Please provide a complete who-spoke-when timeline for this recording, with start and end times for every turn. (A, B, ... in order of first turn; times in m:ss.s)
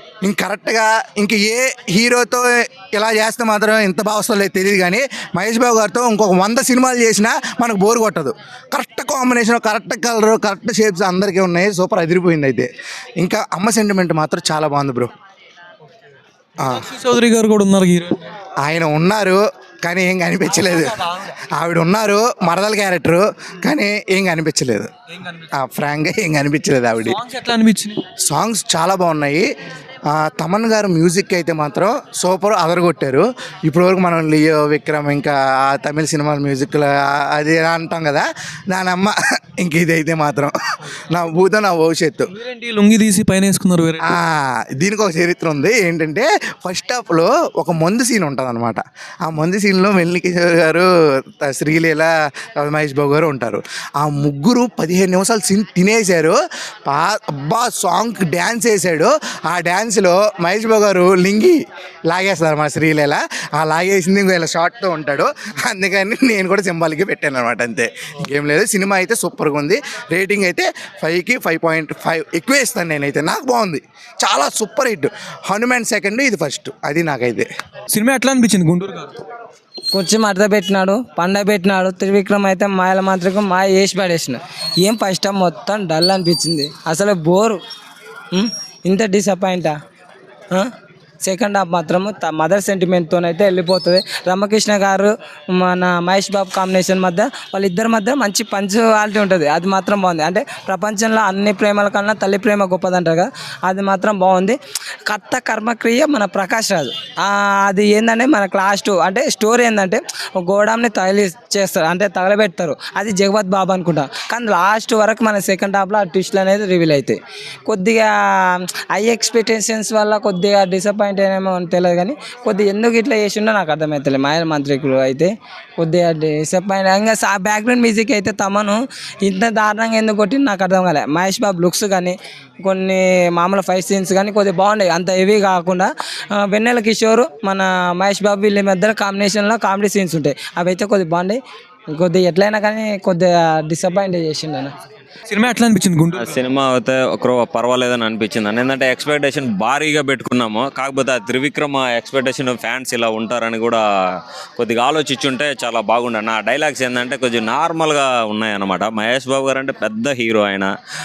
0:00.2-0:12.7 A
0:13.2-0:15.1 A
0:16.6-0:18.2 B
0:18.6-0:24.9 A
0:25.5-0:27.2 A
0:27.1-0:28.0 B
0:28.3-0:29.5 A
0:30.1-0:40.5 A
0:41.1-0:42.3 A
0:42.4-0:44.0 B
0:44.0-0:50.9 A
0:51.4-0:52.1 A
0:52.6-1:17.5 A
1:17.9-1:19.1 B
1:19.9-1:27.6 C
1:28.3-1:29.8 C
1:31.2-1:58.1 C
1:58.9-2:15.9 C
2:16.4-2:24.7 C
2:25.3-2:26.3 B
2:26.1-2:33.8 D
2:34.6-2:40.7 D